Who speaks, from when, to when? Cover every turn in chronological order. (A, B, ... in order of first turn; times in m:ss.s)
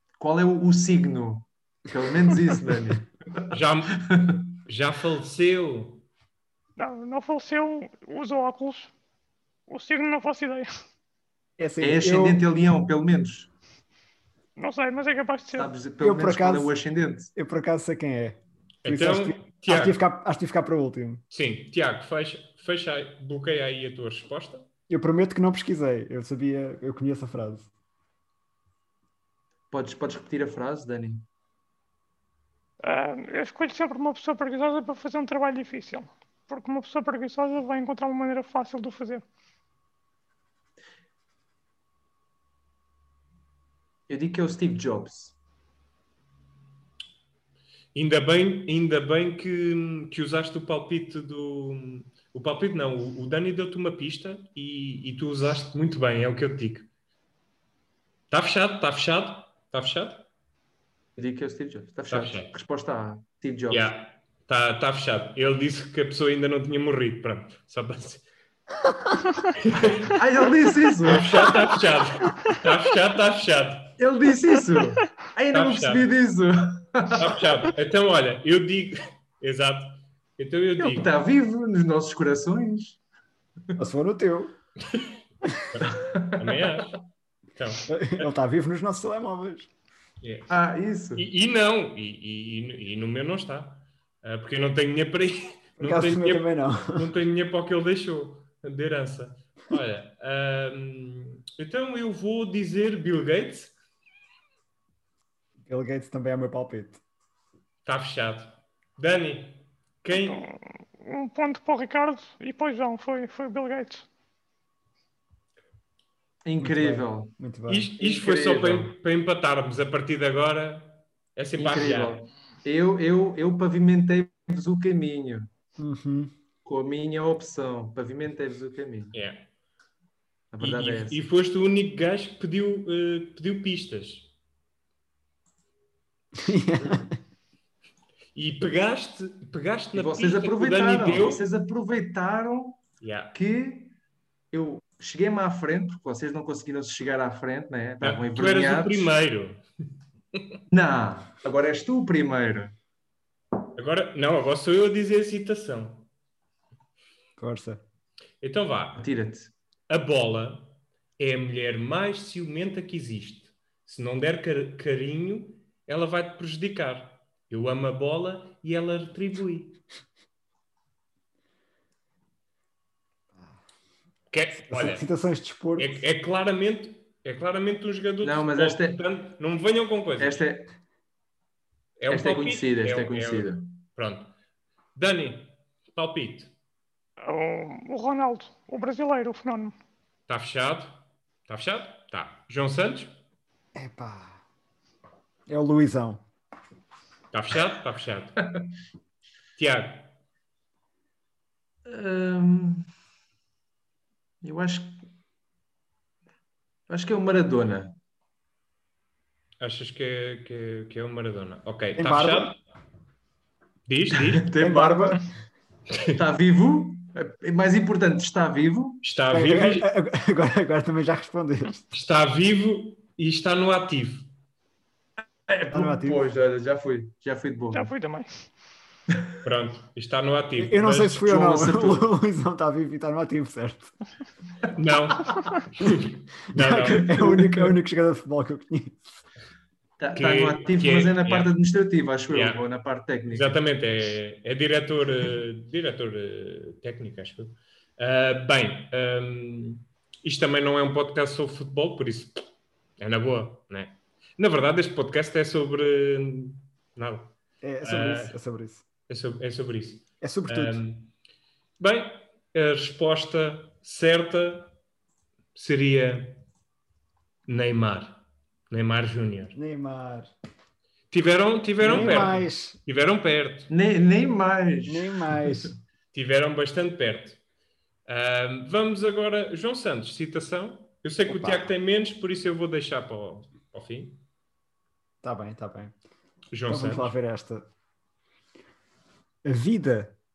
0:00.2-0:04.5 A
0:03.5-0:04.0 B
0:04.6-0:06.0 B
0:06.8-0:08.9 C
0:09.7-0:10.7 C
0:11.6-0:12.4 D
0:11.8-0:13.5 A
0:14.6-0:15.7 C
0:15.5-0:17.3 A
0:16.0-0:16.7 D
0:17.3-0:21.2 D
0:18.8-0:20.0 B
0:21.3-0:24.7 B
0:24.9-0:27.7 D
0:29.7-0:31.2 A
0:32.8-0:39.2 C
0:44.1-0:45.3 A
0:47.9-0:56.9 B
0:58.3-1:00.3 B
1:01.2-1:03.9 A
1:02.1-1:02.5 B
1:03.7-1:08.3 B
1:09.5-1:10.1 B
1:10.0-1:11.6 A
1:11.1-1:14.0 B
1:14.0-1:17.4 A
1:15.5-1:16.0 B
1:17.1-1:21.1 B
1:20.8-1:23.0 A
1:23.8-1:24.6 D
1:24.8-1:25.2 B
1:25.7-1:27.0 B
1:25.9-1:26.6 A
1:27.6-1:28.2 B
1:27.9-1:29.7 D
1:30.2-1:30.5 B
1:30.5-1:31.2 A
1:31.2-1:43.7 B
1:35.8-1:37.1 D
1:45.6-1:47.0 D
1:47.8-1:50.4 B
1:50.1-1:54.0 C
1:56.4-1:57.3 A
1:56.6-1:57.9 D
1:57.7-2:02.2 B
1:58.0-1:58.9 A
2:01.6-2:05.5 A
2:05.8-2:06.3 D
2:06.6-2:09.1 A
2:09.1-2:09.5 B
2:10.5-2:11.2 A
2:10.6-2:14.3 B
2:16.4-2:17.1 D
2:18.3-2:21.4 B
2:19.9-2:22.8 A
2:23.0-2:23.3 B
2:23.3-2:23.9 A
2:24.5-2:29.1 A
2:28.0-2:29.6 B
2:30.7-2:32.7 A
2:33.7-2:36.1 B
2:37.4-2:37.8 D
2:38.4-2:39.0 B
2:39.0-2:39.5 A
2:39.9-2:49.8 B
2:54.3-2:55.0 B
2:54.6-2:56.0 D
2:55.8-3:00.4 B
2:58.2-2:59.0 A
3:00.2-3:00.7 A
3:02.0-3:04.3 B
3:02.1-3:03.7 A
3:04.9-3:06.5 B
3:07.2-3:09.7 C
3:10.3-3:13.1 B
3:13.7-3:14.4 D
3:15.5-3:16.2 D
3:17.3-3:18.4 B
3:19.6-3:20.2 B
3:21.8-3:22.8 A
3:24.4-3:25.0 A
3:26.9-3:27.9 A
3:29.6-3:32.6 B
3:32.0-3:32.5 D
3:33.8-3:34.4 B
3:34.4-3:35.3 A
3:34.6-3:35.2 D
3:36.2-3:39.0 A
3:39.0-3:39.9 B
3:39.3-3:41.9 D
3:41.9-3:44.3 B
3:45.5-3:47.9 A
3:45.7-3:46.2 D
3:47.7-3:48.5 C
3:49.4-3:51.3 B
3:50.6-3:53.9 D
3:51.2-3:52.1 A
3:54.7-3:57.2 B
3:56.5-3:59.0 D
3:56.8-3:57.7 A
4:00.0-4:03.6 A
4:00.1-4:01.5 B
4:02.3-4:02.6 B
4:03.3-4:12.4 B
4:13.0-4:18.4 B
4:17.6-4:18.8 D
4:19.1-4:21.1 B
4:20.2-4:20.8 D
4:21.8-4:24.7 B
4:25.5-4:26.4 B
4:27.5-4:29.6 B
4:29.5-4:30.3 D
4:31.1-4:33.7 B
4:31.8-4:32.8 D
4:33.7-4:35.7 A
4:34.8-4:35.7 D
4:36.1-4:37.4 B
4:38.0-4:44.2 B
4:41.3-4:41.7 D
4:45.2-4:45.9 D
4:46.5-4:47.1 B
4:46.7-4:47.7 D
4:49.4-4:50.2 D